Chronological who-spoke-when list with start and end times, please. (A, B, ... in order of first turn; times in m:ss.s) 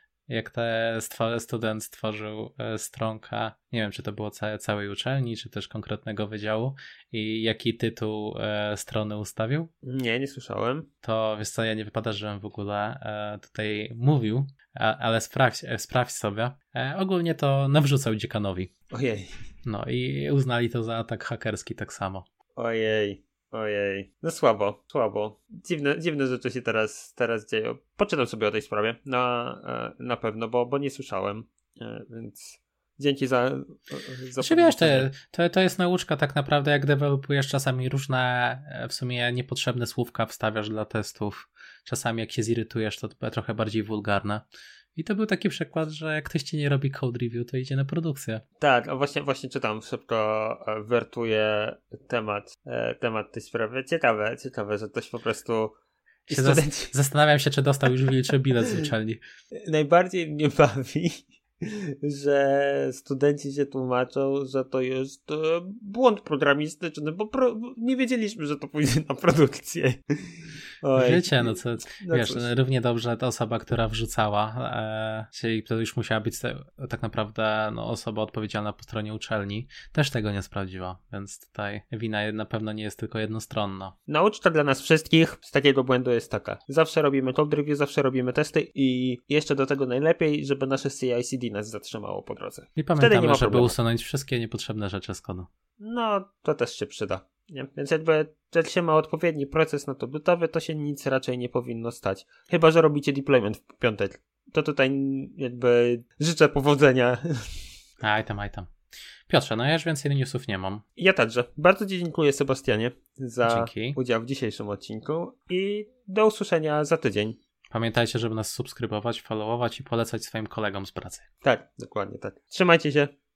0:00.3-0:09.7 A
0:09.8-0:10.9 B
0:11.0-0:18.7 A
0:18.9-0:19.3 B
0:19.7-0:22.3 A
0:22.6-0:35.1 B
0:34.4-0:44.4 A
0:45.0-0:48.4 A
0:48.6-0:55.8 B
0:56.3-0:56.9 B
0:56.3-0:59.2 A
0:59.6-1:12.5 B
1:11.0-1:24.0 A
1:24.1-1:33.8 B
1:32.8-1:35.5 A
1:35.8-1:47.6 B
1:48.0-1:48.7 A
1:49.3-1:50.8 A
1:51.0-1:57.4 B
1:53.4-1:54.0 A
1:57.7-2:01.2 A
2:01.4-2:03.1 B